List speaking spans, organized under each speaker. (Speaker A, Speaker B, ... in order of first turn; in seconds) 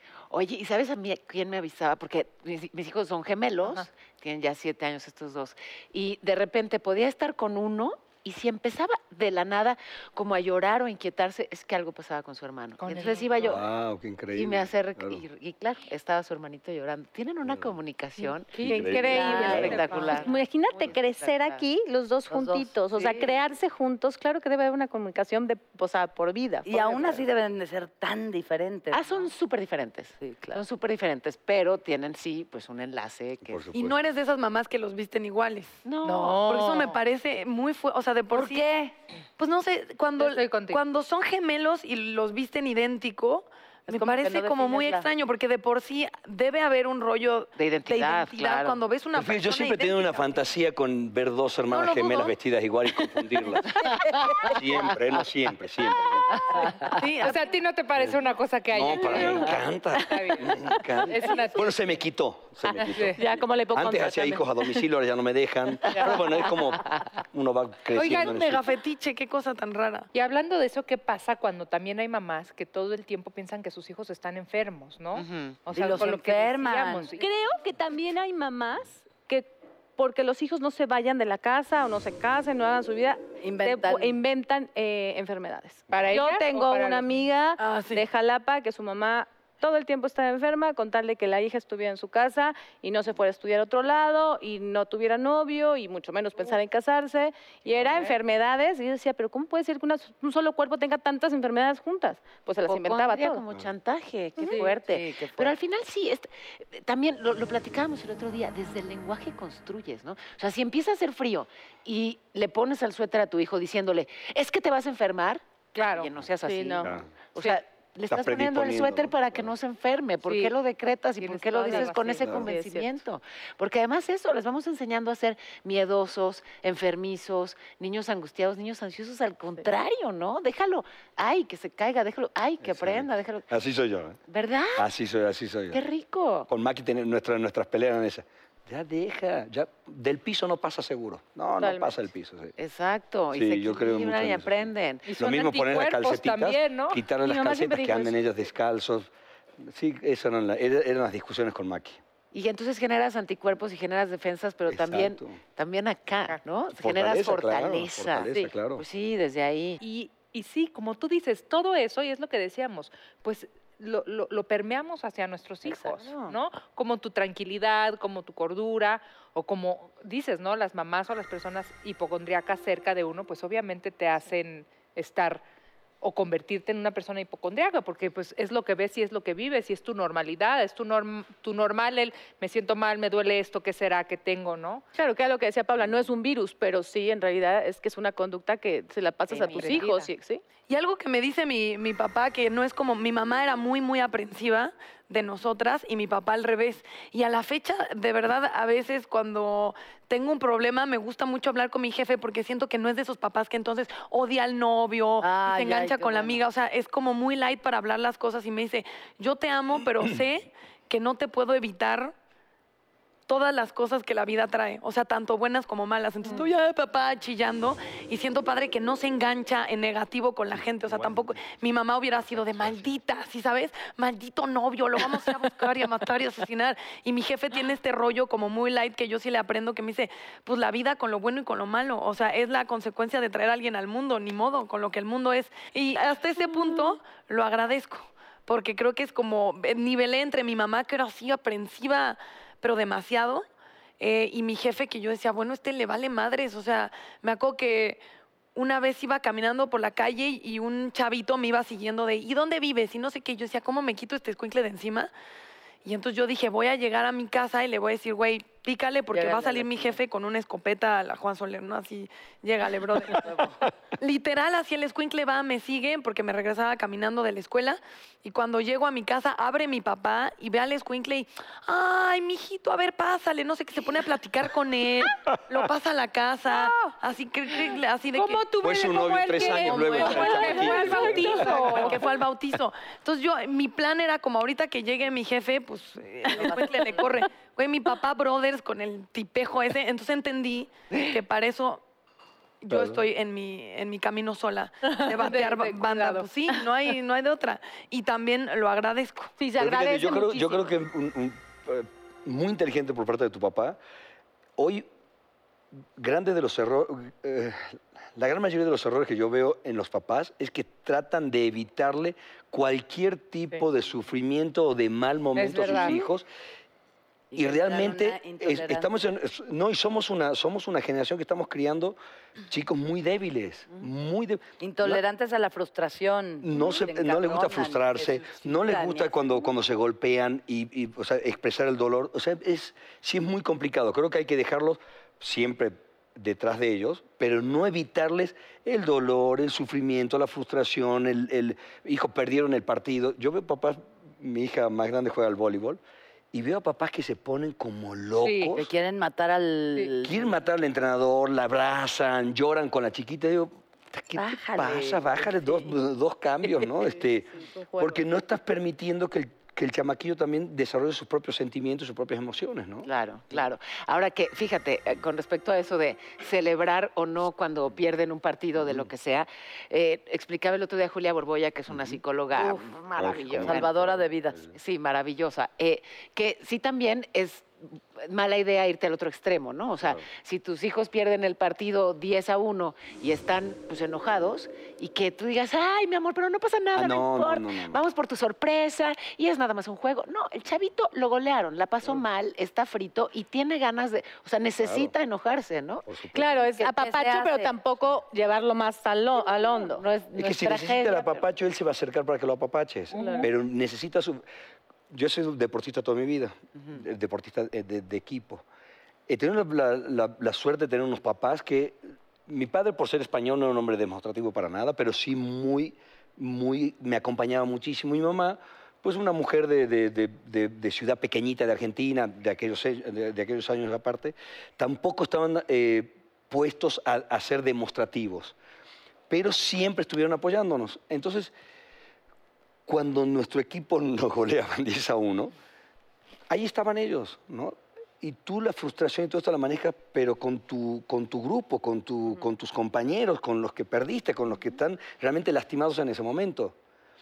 Speaker A: 0.3-13.7, 14.3-21.6, 28.9-33.7, 35.8-36.4, 47.6-48.8, 75.2-75.6, 102.6-133.5, 134.3-134.9, 135.7-136.5, 142.6-145.1, 152.3-159.8, 165.7-166.4, 189.3-189.9, 362.8-373.7, 374.5-395.9, 399.2-401.2
Speaker B: 12.8-13.6, 18.5-20.4, 36.0-37.0, 40.2-40.8, 57.2-61.7, 62.9-63.2, 68.0-68.3, 70.1-77.3, 85.9-87.2, 115.7-116.1, 120.2-120.5, 121.2-122.5, 145.1-147.0, 159.8-175.4, 176.0-184.8, 189.6-190.1, 278.1-282.0, 294.9-296.3, 315.3-316.0, 348.2-348.6, 402.9-403.3
Speaker C: 13.4-15.2, 17.4-17.7, 18.6-19.9, 33.5-34.0, 49.1-56.6, 58.7-68.6, 116.8-117.1, 118.1-119.5, 122.2-122.5, 132.6-134.2, 134.8-135.8, 136.5-142.5, 143.3-149.1, 149.6-152.0, 154.7-155.4, 156.8-158.8, 220.9-221.3, 278.6-281.8, 292.7-293.0, 299.6-303.8, 304.6-304.9, 306.0-316.3, 317.3-322.0, 322.5-325.0, 326.4-345.8, 346.3-348.7, 350.0-362.9, 368.6-368.9, 371.7-372.0, 372.9-374.5, 386.7-387.8, 394.6-394.9, 395.9-396.3, 400.1-404.2, 404.9-408.4, 409.1-428.4, 429.1-431.3, 432.7-435.3, 436.3-446.5
Speaker D: 18.6-27.2, 30.2-30.6, 63.1-64.8, 65.8-66.9, 77.1-103.4, 104.4-105.5, 116.4-116.9, 121.7-122.9, 141.6-142.0, 147.2-148.2, 184.9-190.4, 279.4-281.3, 299.4-300.8, 356.5-358.0, 396.1-399.9, 402.9-403.3
Speaker E: 22.3-23.1, 26.6-29.0, 38.3-38.9, 43.9-45.0, 75.7-77.1, 83.4-84.2, 205.2-206.4, 259.1-260.0, 263.1-263.6, 317.3-318.9, 324.6-329.1, 348.5-350.3, 354.2-355.2, 373.4-374.4, 396.9-397.5
Speaker F: 33.7-38.6, 39.4-50.4, 51.7-52.3, 56.9-57.4, 67.9-70.1, 87.6-88.0, 190.7-212.1, 213.3-243.4, 244.0-248.0, 248.5-255.1, 255.8-263.4, 264.0-278.5, 279.7-291.8, 292.6-299.3